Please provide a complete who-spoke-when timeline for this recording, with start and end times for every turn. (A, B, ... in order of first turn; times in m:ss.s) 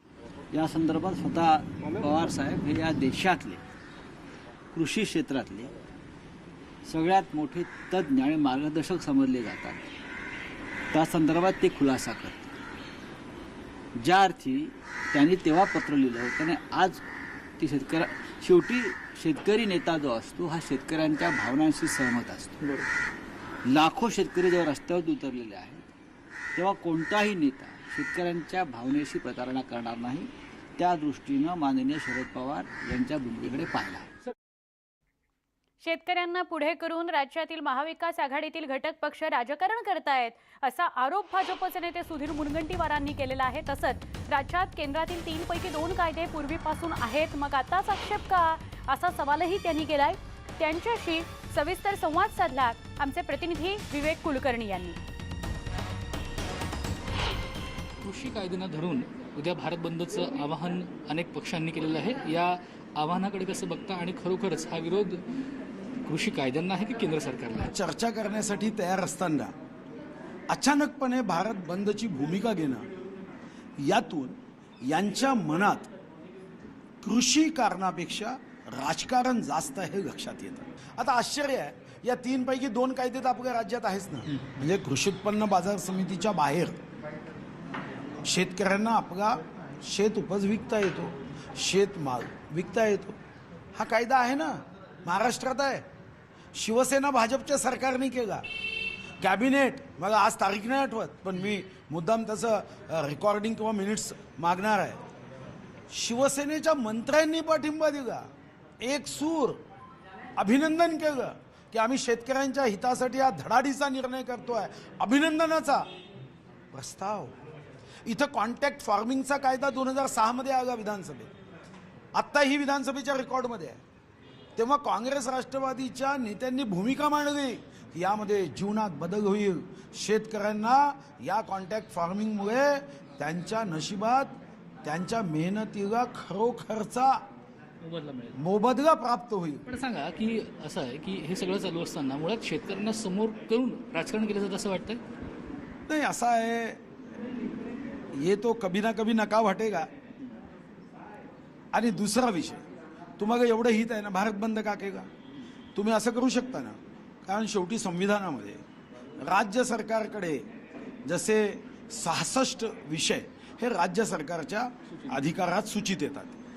0:00.5-0:03.6 A
0:04.7-0:05.7 A
0:06.9-0:09.9 A
0:10.9-0:12.6 A
0:14.0-0:17.0 A
0:17.6-0:22.6 A
0:23.6-0:25.9 A
0:26.5-0:34.1 A
0:35.8-0:55.0 B
0:58.0-1:05.2 C
1:06.1-1:07.7 C
1:07.7-1:09.5 D
1:10.5-1:12.9 D
1:13.8-1:15.9 D
1:17.0-1:26.8 D
1:28.2-1:33.2 D
1:33.8-1:35.8 D
1:36.5-1:38.4 D
1:39.2-1:45.0 D
1:45.9-1:48.3 D
1:48.8-1:49.6 D
1:50.4-1:55.9 D
1:56.7-1:57.4 D
1:58.0-2:01.3 D
2:02.1-2:03.8 D
2:04.6-2:17.2 D
2:17.8-2:18.4 C
2:18.4-2:19.6 D
2:19.7-2:25.0 C
2:25.9-2:26.8 D
2:28.1-2:29.9 D
2:31.7-2:32.6 D
2:33.2-2:35.1 D
2:35.7-2:38.6 D
2:39.2-2:40.5 D
2:41.0-2:46.4 D
2:44.9-2:45.3 C